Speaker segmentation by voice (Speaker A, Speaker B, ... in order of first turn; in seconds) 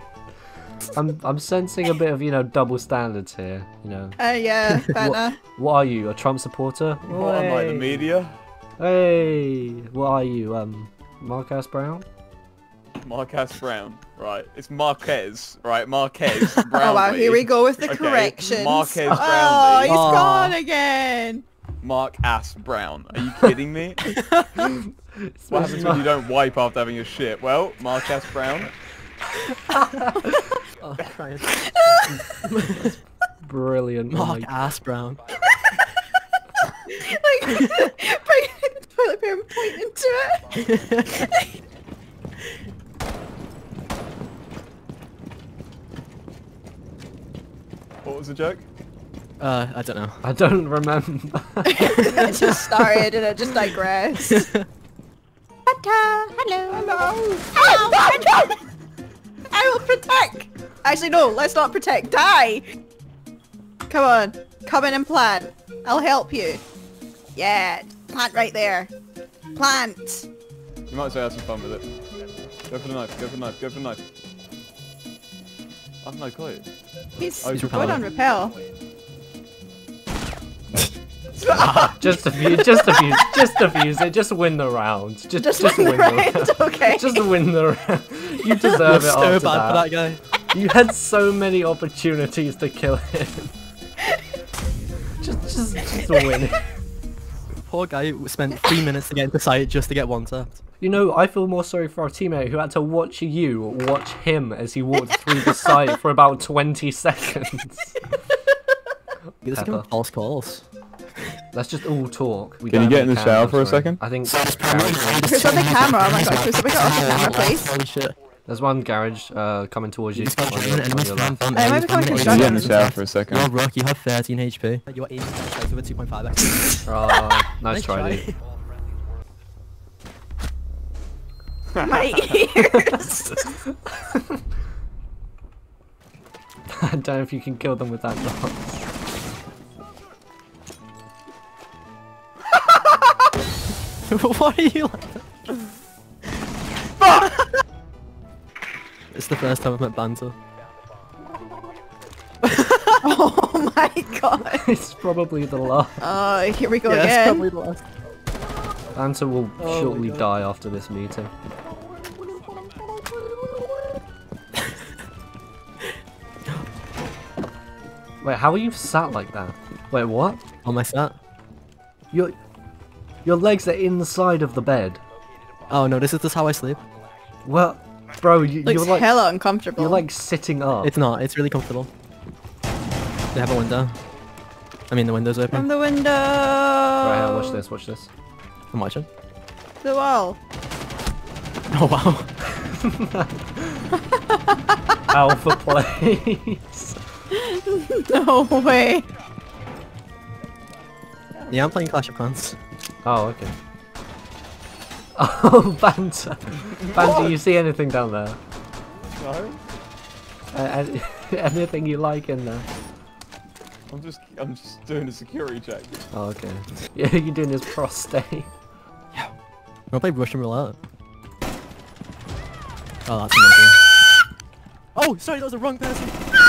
Speaker A: 0.9-4.2, 4.9-8.1, 8.8-12.1, 24.6-26.1, 29.7-30.1, 32.8-34.5, 50.2-52.0, 82.0-89.9, 90.5-93.5, 95.2-96.7, 100.8-108.0, 109.5-109.9, 111.5-115.5, 118.5-121.4, 126.9-128.3, 133.7-134.2, 136.8-138.8, 154.5-156.0, 158.9-161.3, 168.2-170.4, 173.2-175.0, 177.4-179.1, 179.8-180.9, 187.0-188.1, 192.7-193.8, 195.1-197.0, 203.0-203.6, 205.2-208.4, 210.5-212.7, 216.1-218.5
Speaker B: 4.2-5.4, 16.8-21.4, 31.6-32.2, 36.9-40.6, 51.6-54.5, 55.7-58.5, 59.5-62.6, 63.9-66.6, 67.4-68.9, 69.6-70.3, 77.2-78.6, 85.4-87.2, 115.2-117.7, 121.5-122.8, 131.8-133.3, 153.0-154.6, 156.0-157.5, 178.7-180.0, 185.5-187.6, 189.8-190.4, 197.3-199.1
Speaker C: 7.1-8.3, 13.0-20.2, 21.8-24.1, 25.5-28.7, 48.0-48.6, 56.7-57.7, 70.9-71.9, 72.7-74.0, 76.0-76.7, 77.4-78.0, 112.7-114.0, 122.1-123.5, 131.8-132.5, 147.0-147.3, 206.5-207.4, 209.1-209.6, 213.9-216.1
Speaker D: 19.9-20.6, 24.1-24.6, 30.8-31.8, 32.4-33.0, 34.1-35.2, 40.6-41.3, 49.4-50.2, 54.3-54.7, 77.5-78.0, 81.5-82.0, 88.6-90.2, 97.7-100.6, 109.4-110.7, 117.0-118.2, 120.2-126.9, 127.7-128.3, 144.1-145.2, 147.2-147.6, 149.1-150.4, 152.4-153.0, 156.8-157.9, 159.6-160.3, 162.7-163.9, 170.6-171.2, 175.7-176.8, 180.8-181.9, 183.3-184.0, 184.9-185.7, 188.7-189.1, 191.7-192.3, 201.5-202.6, 219.9-220.8, 223.1-223.8, 224.9-226.2